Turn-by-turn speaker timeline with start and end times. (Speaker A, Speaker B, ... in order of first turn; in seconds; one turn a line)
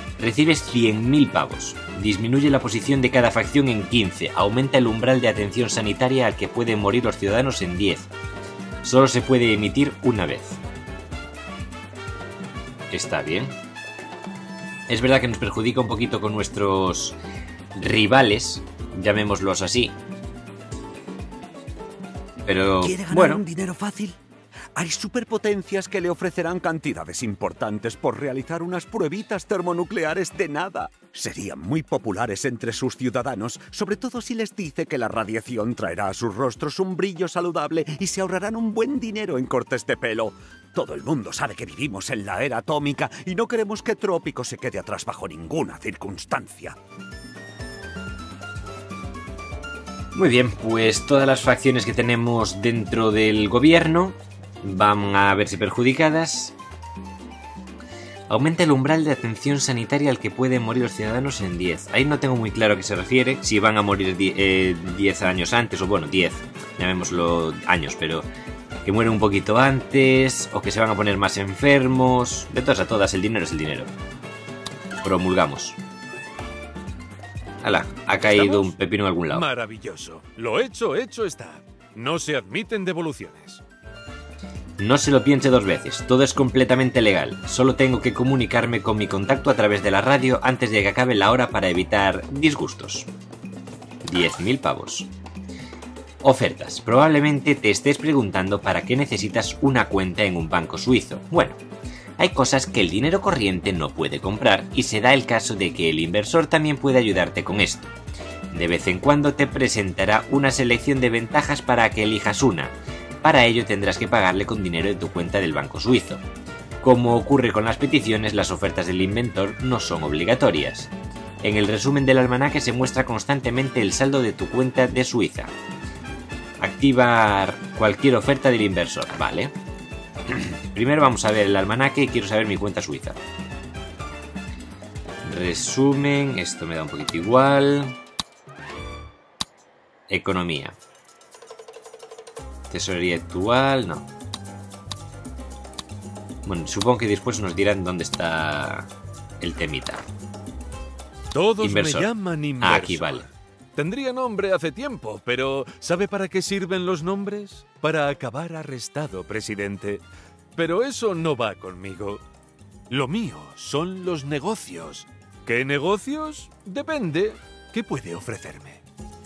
Speaker A: 0.2-8.1
Speaker A: 8.8-10.6
Speaker A: 12.9-13.5
Speaker A: 14.9-17.2
Speaker A: 17.7-19.9
Speaker A: 22.4-23.4
Speaker B: 22.8-24.2
Speaker B: 24.7-46.8
Speaker A: 50.1-56.5
Speaker A: 58.3-68.2
Speaker A: 68.8-73.9
Speaker A: 75.0-75.8
Speaker A: 77.6-79.4
Speaker C: 78.3-78.7
Speaker C: 79.3-83.6
Speaker A: 84.8-93.1
Speaker A: 94.0-95.1
Speaker A: 96.2-101.6
Speaker A: 102.2-107.9
Speaker A: 108.5-116.2
Speaker A: 116.8-120.9
Speaker A: 121.4-125.5
Speaker A: 126.6-129.5
Speaker A: 130.7-133.2
Speaker A: 135.2-137.9
Speaker A: 140.1-140.8
Speaker A: 142.7-144.1
Speaker A: 146.4-148.9
Speaker A: 149.4-150.0
Speaker C: 151.3-160.0
Speaker A: 151.6-153.2
Speaker C: 160.6-162.2
Speaker C: 162.9-168.8